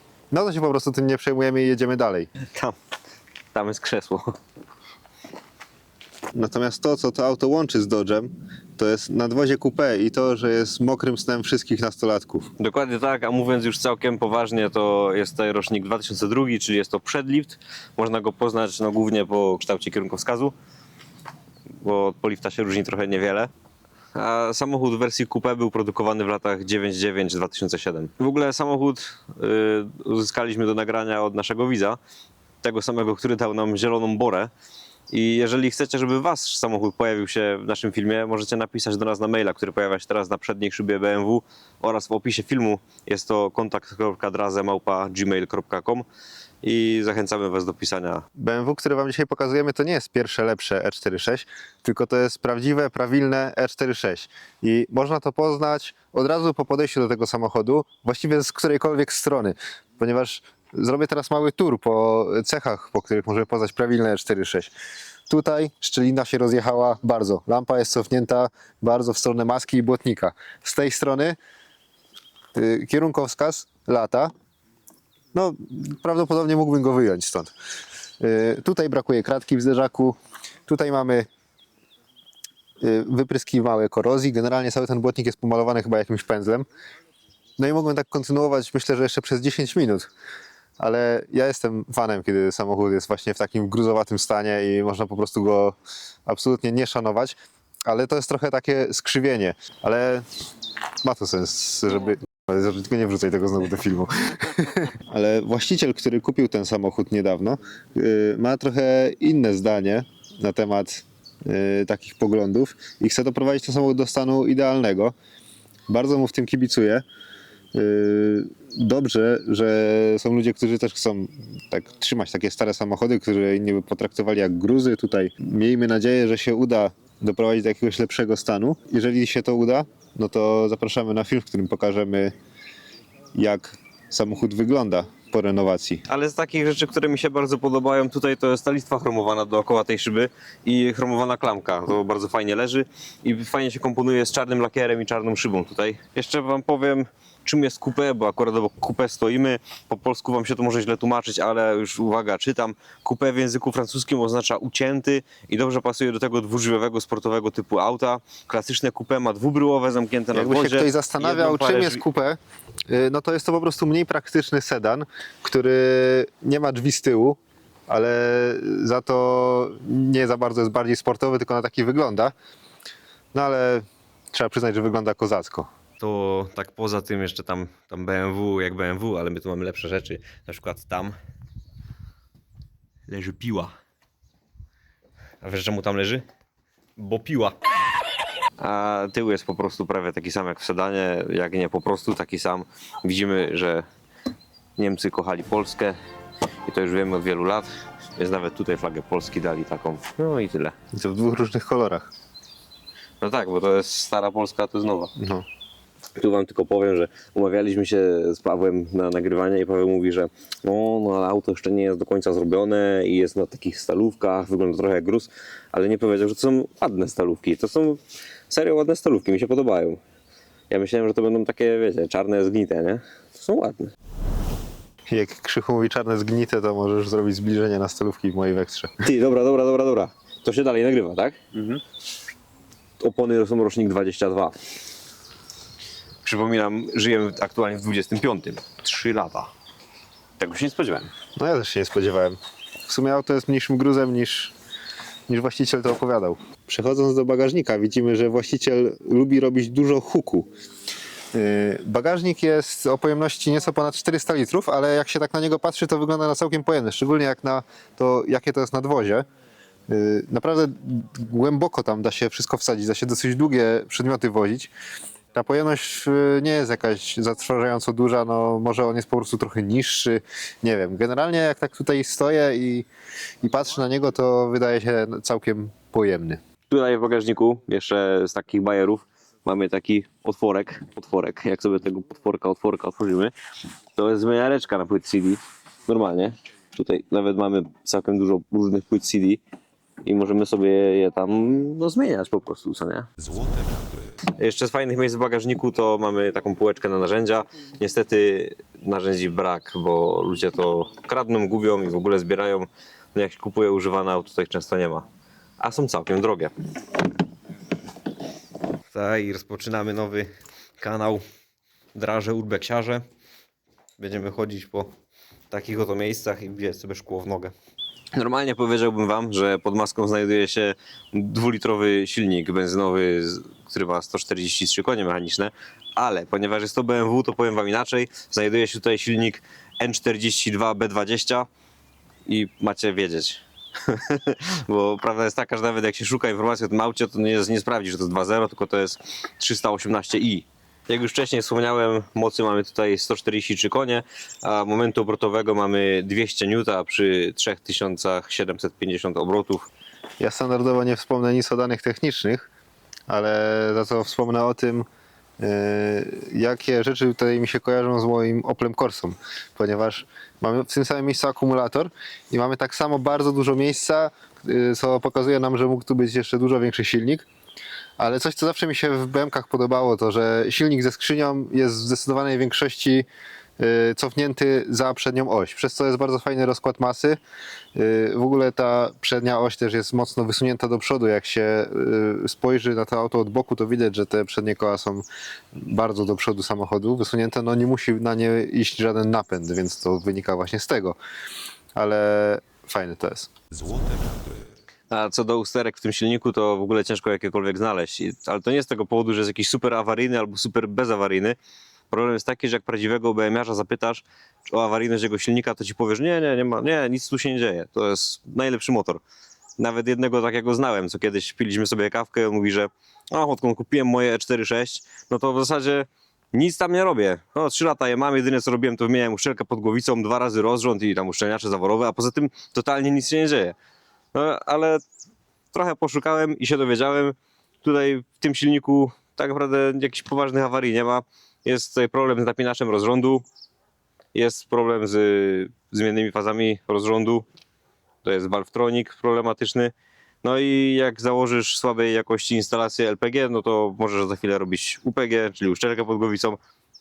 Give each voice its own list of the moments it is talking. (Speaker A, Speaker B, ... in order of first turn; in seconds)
Speaker A: 0.3-2.3, 6.3-12.5, 48.4-64.7, 65.3-71.4, 72.5-74.3, 75.3-77.5, 78.2-81.3, 82.8-86.7, 87.6-90.1, 90.8-97.3, 97.8-100.2, 101.0-115.1, 115.9-117.0, 117.7-132.3, 133.3-136.0, 160.3-167.4, 167.9-172.3, 173.3-175.7, 200.9-202.1, 205.2-205.4, 225.1-228.9, 241.3-244.5, 245.3-250.5, 251.3-259.2, 259.9-264.7, 265.3-272.9, 273.4-276.4, 350.2-352.5, 353.1-354.9, 355.4-367.3, 368.0-373.1, 373.6-377.2, 377.7-391.0, 391.8-393.3
Speaker B: 3.5-4.3, 12.6-20.5, 21.8-23.5, 24.1-32.0, 32.6-34.5, 35.1-46.0, 46.6-48.2, 136.1-162.0, 176.0-181.2, 183.1-183.7, 185.4-186.2, 187.0-187.6, 188.6-193.8, 194.8-196.0, 196.7-200.7, 203.2-205.1, 206.2-220.0, 220.7-223.9, 229.0-231.8, 233.0-234.5, 236.2-239.5, 240.4-241.1, 276.7-283.3, 283.9-289.4, 290.0-293.1, 294.4-305.1, 305.6-306.5, 308.9-311.2, 311.9-313.0, 314.0-314.9, 315.5-317.5, 318.1-331.5, 332.2-349.7, 394.9-401.4, 401.9-409.0, 409.6-423.5, 424.1-424.8, 425.5-433.2, 434.1-437.2, 438.0-439.7, 440.2-446.4